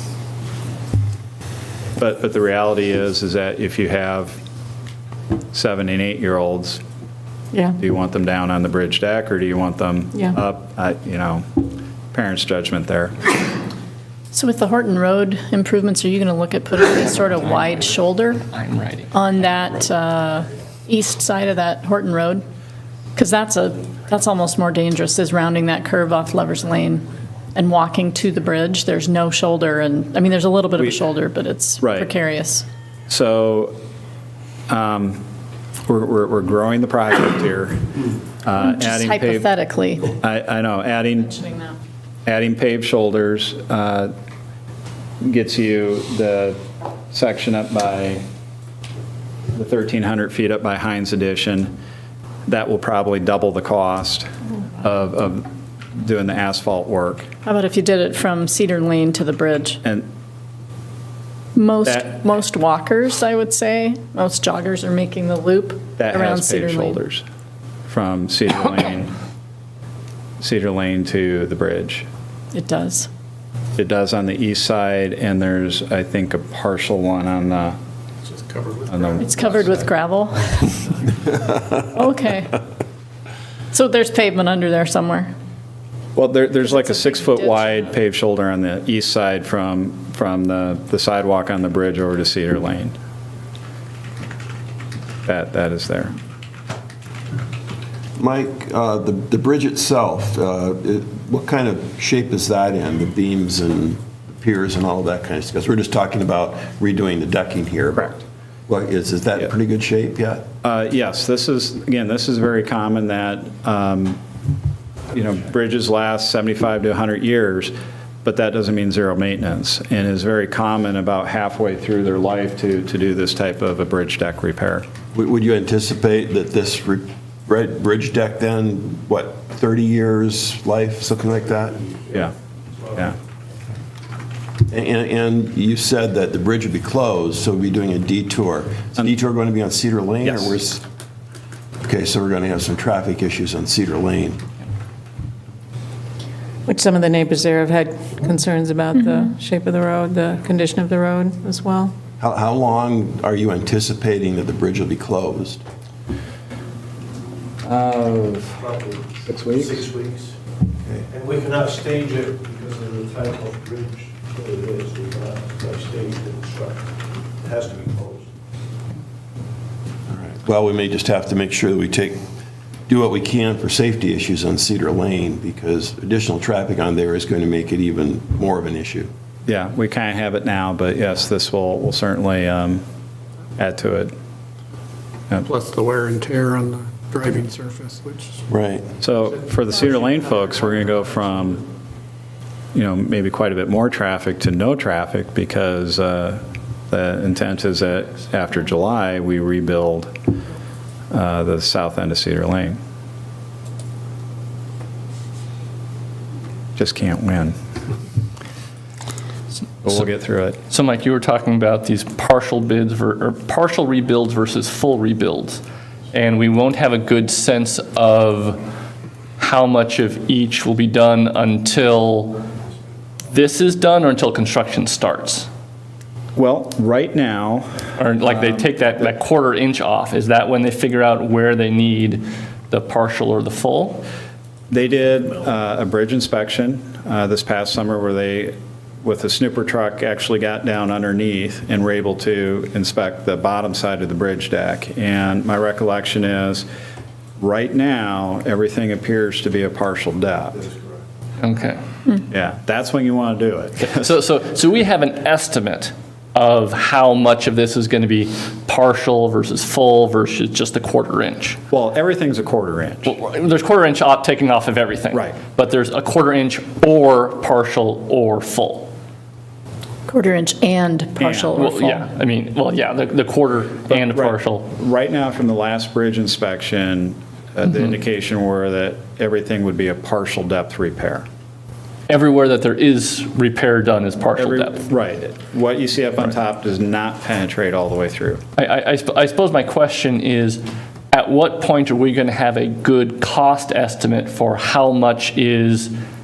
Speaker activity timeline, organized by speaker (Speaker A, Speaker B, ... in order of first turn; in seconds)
Speaker A: 2.0-4.4, 5.5-6.8, 7.8-13.2, 31.8-32.1, 33.1-33.8, 34.7-35.2, 35.9-39.5, 40.1-41.4, 42.3-44.1, 45.2-46.6, 47.1-48.2, 49.5-51.7, 52.5-57.3, 61.9-62.2, 66.0-67.2, 67.9-69.1, 70.4-72.1, 73.8-77.8, 78.9-79.7, 86.2-93.0, 95.3-96.2, 110.6-114.2, 115.1-124.9, 140.2-140.5, 157.6-158.6, 159.2-159.9, 179.4-182.8, 183.6-184.1, 189.0-191.6, 192.7-200.1, 201.1-202.8, 206.8-207.5, 209.8-210.6, 226.3-227.9, 234.7-246.7, 247.4-250.6, 252.3-254.1, 261.7-263.1, 271.2-271.6, 273.9-281.2, 284.4-288.4
Speaker B: 7.5-7.8, 146.7-151.9
Speaker C: 14.3-18.4, 19.1-22.4, 23.1-32.6, 38.6-40.1, 57.4-59.8, 61.5-67.0, 72.5-73.1, 79.2-80.8, 81.7-82.6, 83.7-85.3, 86.6-88.0, 148.9-149.3, 270.1-272.1
Speaker D: 18.5-19.1, 209.8-210.1, 210.7-218.6, 219.4-222.4, 223.3-225.5, 228.0-234.0, 251.4-251.8, 253.8-261.6, 263.1-268.9, 271.6-274.7, 282.1-284.9, 288.6-295.9
Speaker E: 78.2-79.3, 185.4-188.4
Speaker F: 98.2-110.4, 125.1-131.8, 134.7-140.8, 141.8-144.4, 152.2-155.6, 170.1-172.2, 172.9-179.1, 188.5-188.8
Speaker G: 158.6-160.3, 161.1-168.3